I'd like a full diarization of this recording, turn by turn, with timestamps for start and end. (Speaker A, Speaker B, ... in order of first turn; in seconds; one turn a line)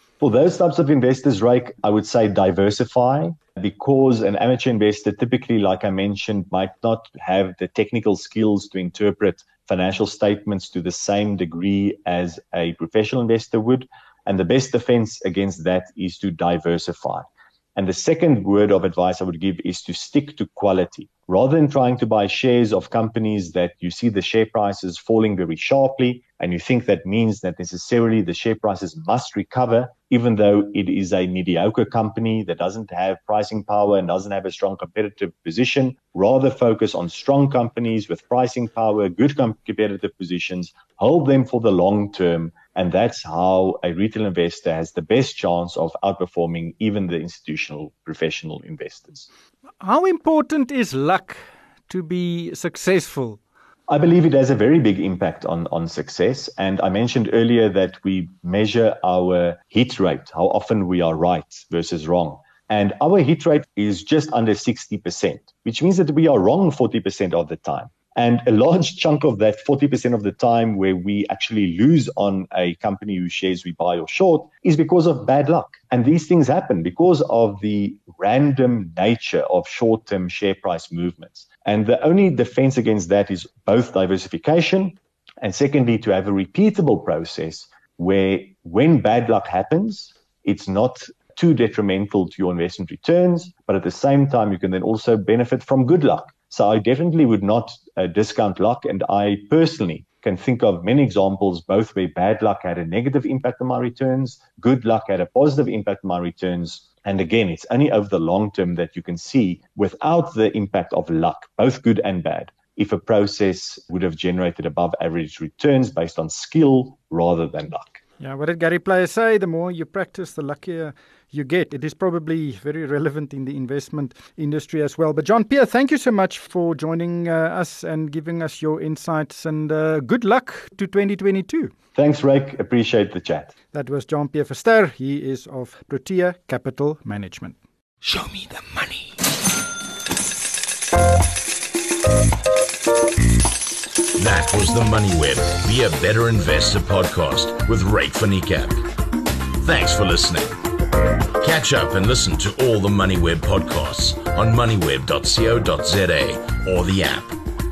Speaker A: 0.2-49.3
Speaker B: 49.8-53.4
Speaker A: 53.9-118.0
Speaker B: 118.2-131.7
Speaker A: 131.9-133.5
Speaker B: 133.7-139.1
Speaker C: 144.2-148.8
Speaker C: 149.6-150.6
Speaker C: 151.4-157.4